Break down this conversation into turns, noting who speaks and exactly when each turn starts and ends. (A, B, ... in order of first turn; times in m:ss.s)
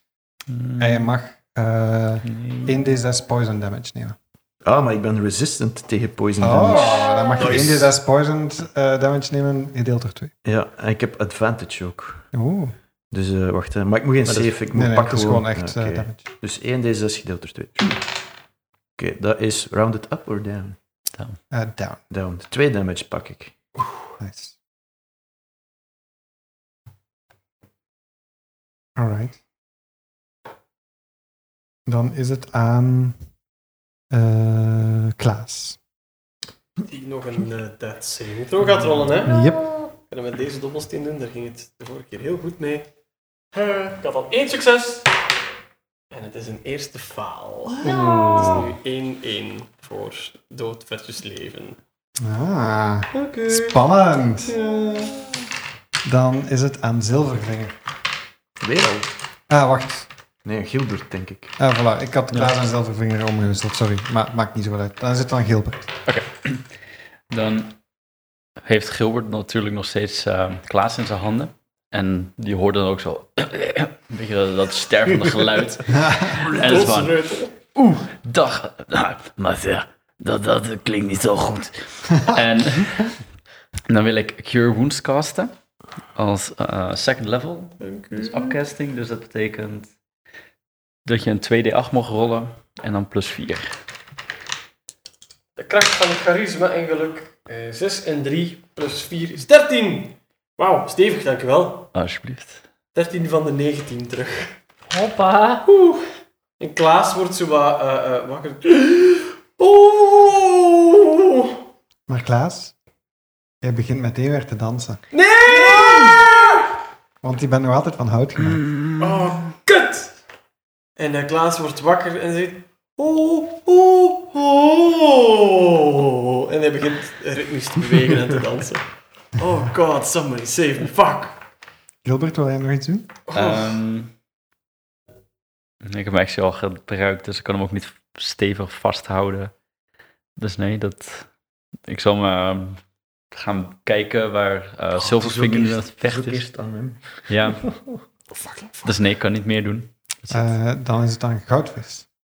0:00.5-0:01.1 A
0:00.8-0:04.2 B
0:02.3-0:02.7 A
0:04.6-0:07.9 C
0:06.4-0:10.3 B
0:06.7-0:07.5 D
0:07.4-0:07.8 E
0:10.4-0:12.3 C
0:12.3-0:12.8 B
0:13.1-0:18.0 C
0:14.6-0:16.2 B
0:19.0-0:20.8 C
0:21.5-0:22.0 B
0:22.1-0:23.8 C
0:24.2-0:24.6 B
0:29.0-0:29.4 B
0:31.9-0:33.3 B
0:34.1-0:35.8 B
0:36.8-0:39.4 E
0:39.2-0:39.7 B
0:39.3-0:39.9 D
0:39.9-0:42.9 E
0:43.5-0:45.1 E
0:46.1-0:51.8 E
0:47.9-0:48.6 D
0:52.2-0:54.6 B
0:53.1-0:53.8 E
0:54.4-0:55.4 E
0:56.0-0:57.8 B
0:58.6-0:59.1 C
0:59.5-1:00.1 B
1:00.4-1:01.6 C
1:01.6-1:05.9 B
1:06.1-1:06.7 A
1:07.3-1:07.8 A
1:08.6-1:17.2 A
1:15.9-1:16.4 B
1:16.4-1:17.6 E
1:17.7-1:23.2 A
1:23.9-1:25.5 A
1:26.2-1:29.9 A
1:27.8-1:28.6 E
1:31.0-1:33.8 A
1:35.6-1:41.9 E
1:41.9-1:42.6 A
1:42.9-1:44.6 E
1:44.9-1:45.7 D
1:45.7-1:46.0 E
1:46.6-1:51.6 E
1:52.1-1:52.7 B
1:53.6-1:55.0 B
1:55.1-1:56.7 E
1:57.2-1:58.8 B
1:58.6-1:59.3 A
1:59.0-2:00.2 E
2:01.0-2:11.4 E
2:12.0-2:13.1 B
2:13.3-2:13.7 E
2:13.3-2:14.1 A
2:15.8-2:19.5 A
2:20.4-2:21.3 A
2:21.9-2:26.4 A
2:25.0-2:27.3 C
2:27.3-2:27.7 A
2:28.8-2:30.5 A
2:30.3-2:32.1 B